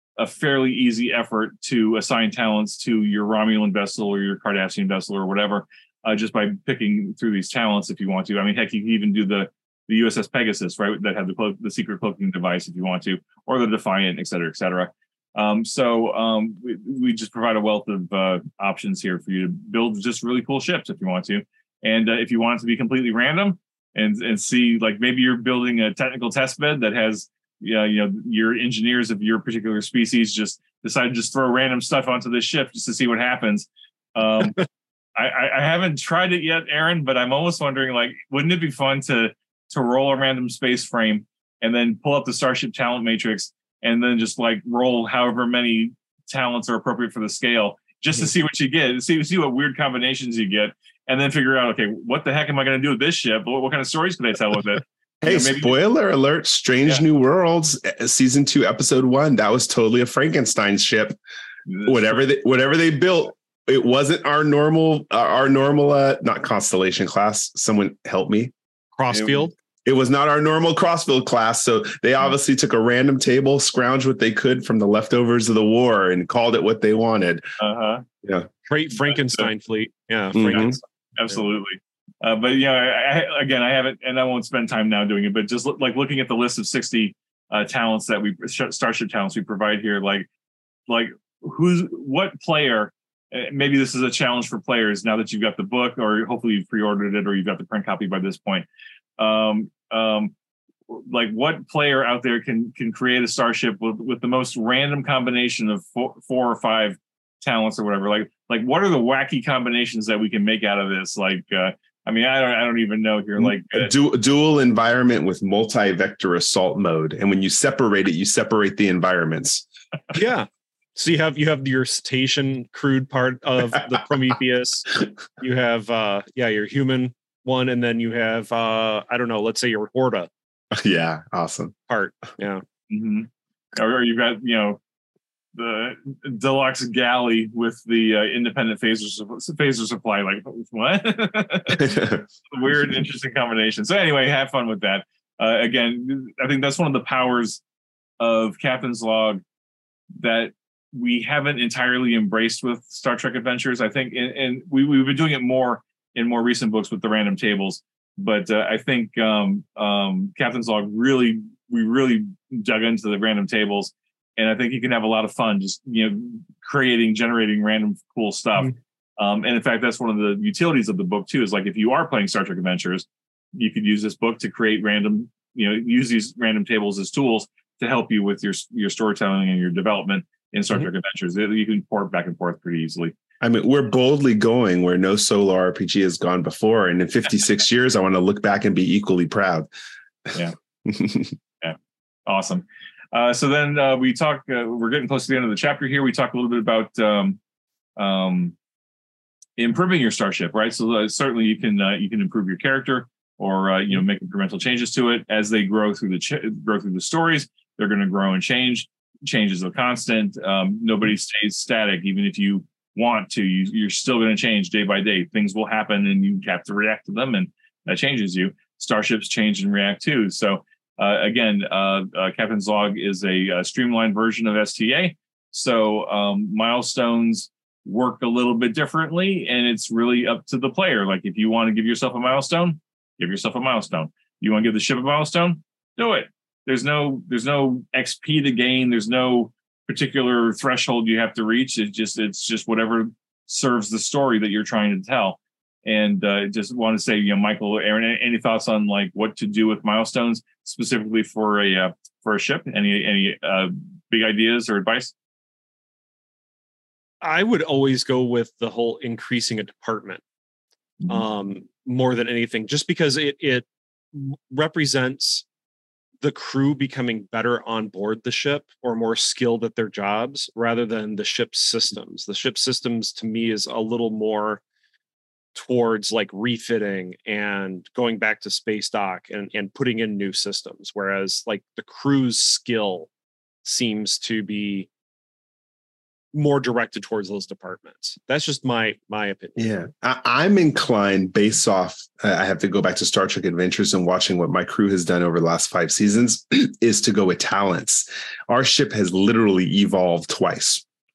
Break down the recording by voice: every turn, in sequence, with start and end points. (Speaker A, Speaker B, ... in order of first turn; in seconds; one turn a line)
Speaker A: 0.2-55.7
Speaker B: 55.2-61.1
Speaker B: 61.8-68.5
Speaker C: 69.0-69.5
Speaker B: 69.8-77.4
Speaker A: 77.6-78.0
Speaker C: 78.7-80.8
Speaker A: 79.1-79.5
Speaker B: 80.3-80.8
Speaker A: 81.2-90.3
Speaker A: 90.9-98.7
Speaker A: 99.2-100.3
Speaker A: 100.9-113.9
Speaker B: 113.4-119.7
Speaker C: 120.1-130.3
Speaker B: 130.7-131.7
Speaker C: 131.9-132.6
Speaker A: 132.9-134.8
Speaker A: 135.5-147.6
Speaker B: 141.8-142.2
Speaker A: 148.2-149.4
Speaker A: 150.2-183.1
Speaker B: 183.4-189.7
Speaker B: 190.8-191.3
Speaker A: 191.6-197.4
Speaker A: 198.0-198.5
Speaker A: 199.6-255.1
Speaker C: 257.2-260.2
Speaker C: 261.1-265.4
Speaker C: 266.2-274.6
Speaker C: 275.5-283.1
Speaker C: 283.6-284.9
Speaker C: 286.3-289.6
Speaker B: 289.6-300.8